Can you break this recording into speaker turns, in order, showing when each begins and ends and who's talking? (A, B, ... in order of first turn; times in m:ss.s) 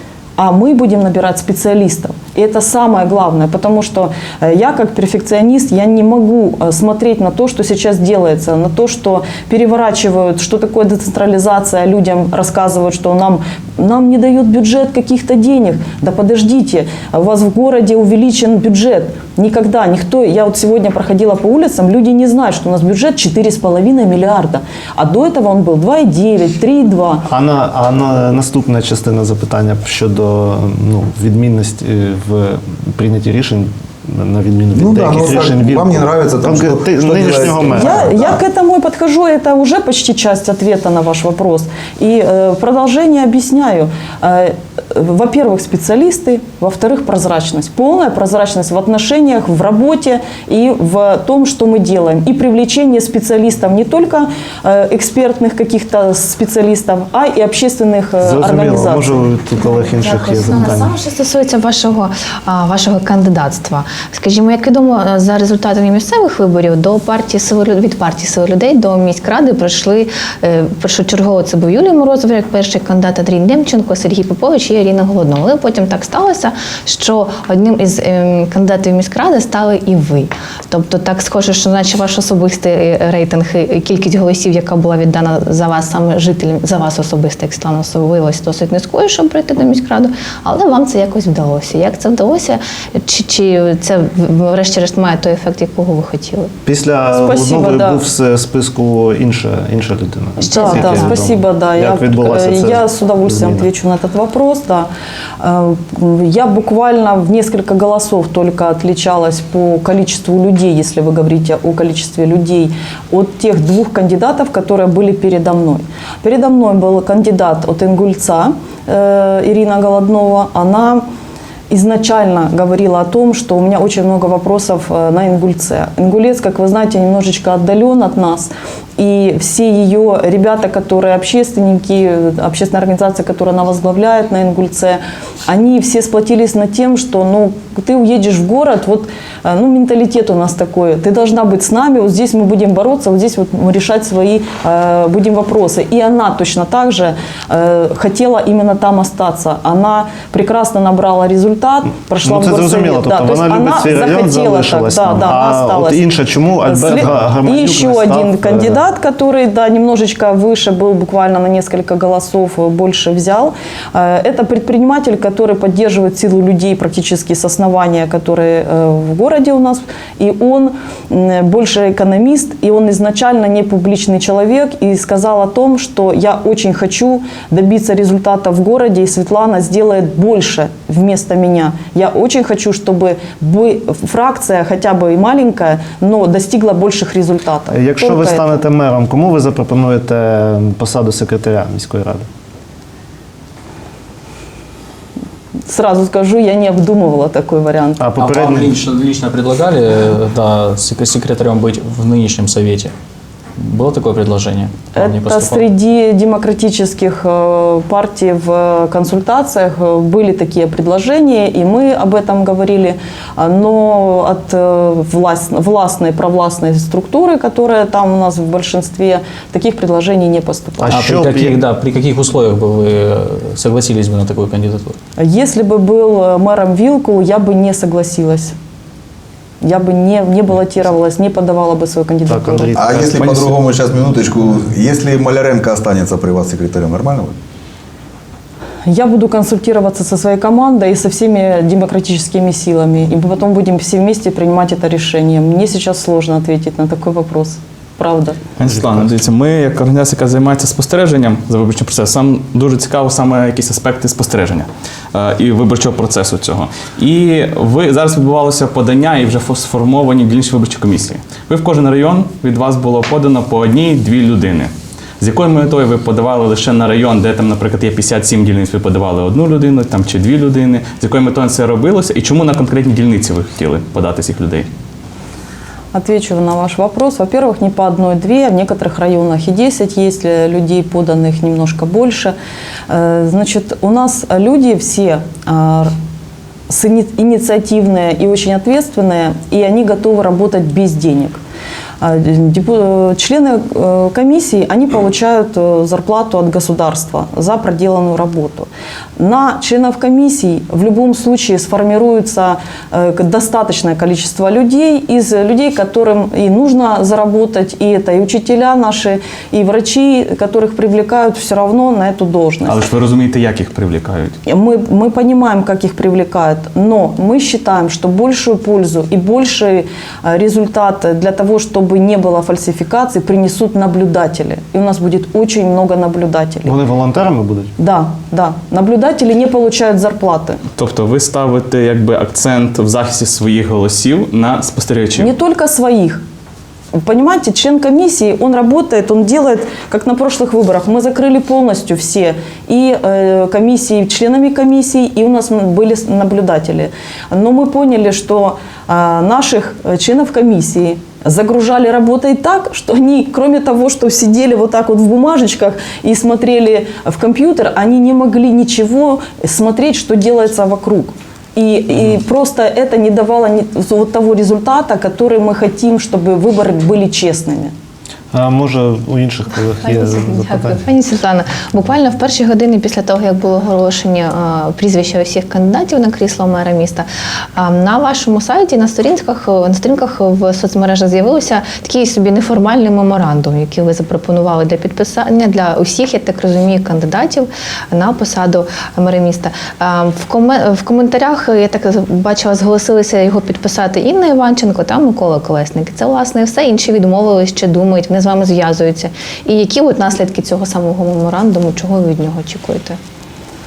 0:00.4-0:27.2 A
0:27.3-0:38.1 B
0:34.7-0:38.4 C
0:37.7-0:59.2 A
0:58.2-1:00.9 B
0:59.6-1:36.5 D
1:36.6-1:43.7 B
1:37.1-1:38.0 A
1:40.4-1:41.2 D
1:40.5-1:44.9 A
1:45.4-2:01.0 A
2:01.7-2:36.0 A
2:32.2-2:38.8 B
2:36.6-3:08.6 A
3:07.7-3:12.3 B
3:15.7-3:18.1 A
3:18.0-3:18.7 B
3:18.2-3:22.9 E
3:23.6-3:25.6 E
3:24.9-3:41.0 A
3:40.8-3:41.6 B
3:40.9-3:45.0 E
3:45.2-3:48.6 A
3:49.6-3:52.7 A
3:52.3-3:53.5 B
3:52.8-3:57.3 C
3:53.2-3:53.5 F
3:58.8-4:08.4 A
4:08.6-4:34.7 F
4:35.9-4:42.3 A
4:42.9-4:45.9 A
4:46.7-4:51.4 A
4:52.0-5:12.8 A
5:12.7-5:14.4 F
5:14.4-5:26.7 A
5:26.6-5:27.7 B
5:27.8-5:30.6 A
5:30.8-5:35.3 F
5:35.2-5:36.2 A
5:36.9-6:07.7 A
6:08.3-6:10.9 B
6:09.8-6:43.0 D